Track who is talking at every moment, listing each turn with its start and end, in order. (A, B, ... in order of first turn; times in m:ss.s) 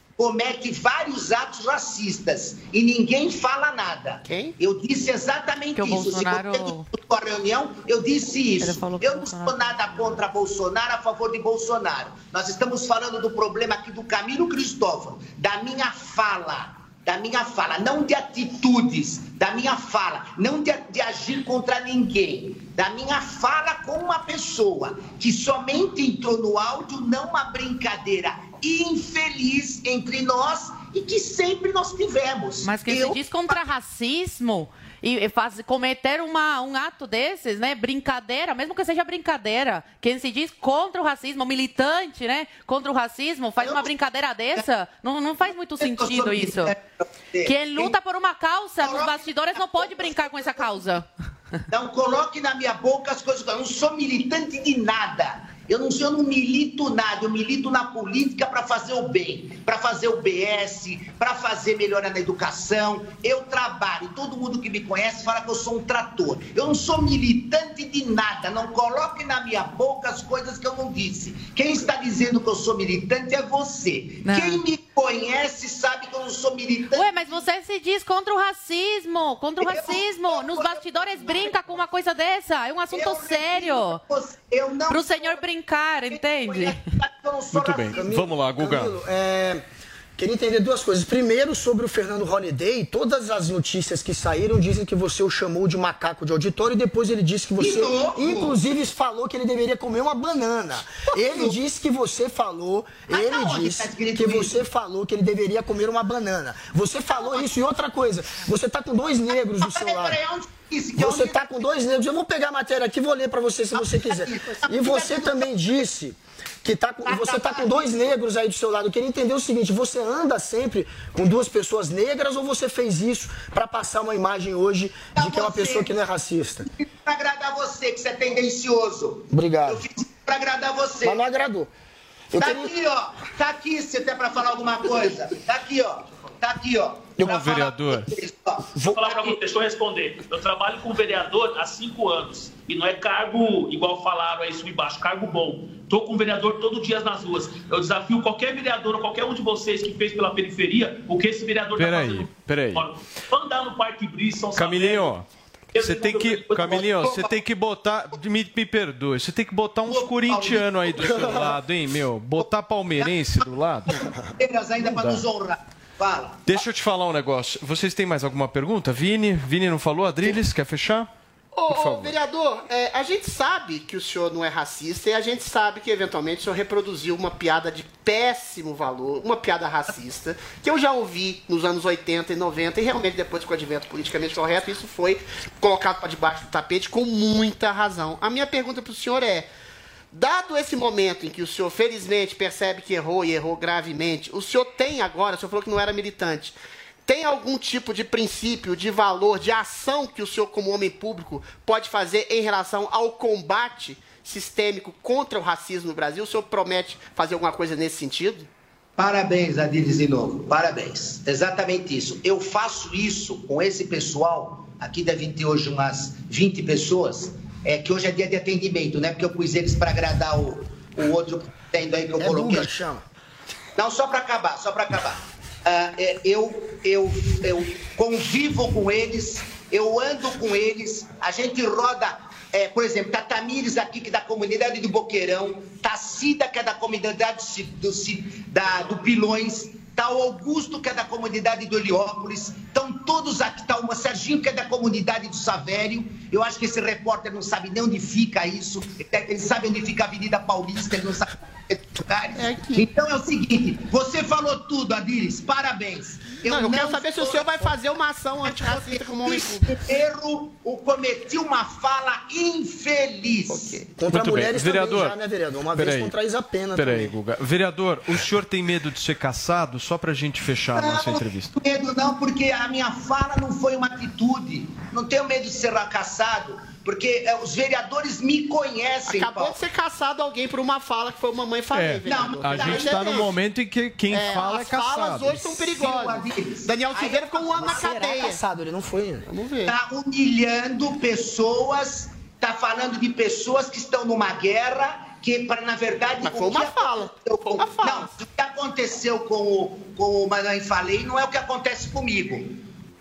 0:00.2-0:33.6 A
0:04.3-0:04.5 B
0:05.7-0:06.9 C
0:08.6-0:10.2 C
0:32.6-0:46.7 C
0:43.6-0:44.0 A
0:45.4-0:48.0 A
0:47.4-0:51.1 C
0:48.8-0:50.8 A
0:51.7-1:17.4 A
1:14.2-1:14.6 C
1:16.9-1:24.0 C
1:19.6-1:21.8 A
1:22.9-1:25.4 A
1:24.9-1:26.8 C
1:26.1-1:28.1 A
1:27.5-1:29.0 D
1:27.9-1:29.6 E
1:30.2-1:50.2 E
1:37.6-1:38.6 A
1:41.1-1:41.6 A
1:43.1-1:44.6 A
1:47.1-1:47.4 A
1:49.4-1:51.5 A
1:50.9-2:06.7 E
1:53.7-1:55.5 A
1:57.0-1:58.0 A
2:05.1-2:05.9 A
2:06.7-2:11.2 A
2:09.3-2:09.8 E
2:11.0-2:11.7 E
2:12.3-2:12.7 E
2:12.4-2:19.3 A
2:17.2-2:18.1 D
2:18.7-2:19.2 E
2:18.9-2:35.1 F
2:31.8-2:32.8 D
2:34.6-2:44.1 D
2:35.7-2:37.1 F
2:39.8-2:41.6 A
2:43.0-2:46.4 A
2:44.8-2:45.2 D
2:46.5-2:51.1 D
2:51.5-3:09.5 B
2:51.7-2:52.1 D
3:10.1-3:28.5 B
3:29.0-3:42.7 A
3:42.2-3:43.0 E
3:43.7-4:17.8 A
4:12.4-4:12.9 B
4:16.4-4:19.7 B
4:18.4-4:23.9 A
4:23.5-4:23.8 B
4:23.9-4:27.1 E
4:24.1-4:25.2 D
4:25.7-4:26.1 D
4:26.7-4:31.5 D
4:30.7-4:39.6 A
4:39.1-4:43.3 B
4:41.7-4:45.5 D
4:42.0-4:43.3 A
4:44.1-4:48.4 B
4:45.3-4:48.0 A
4:47.6-4:49.3 E
4:49.3-4:49.8 B
4:49.6-5:02.5 A
4:56.2-4:58.1 B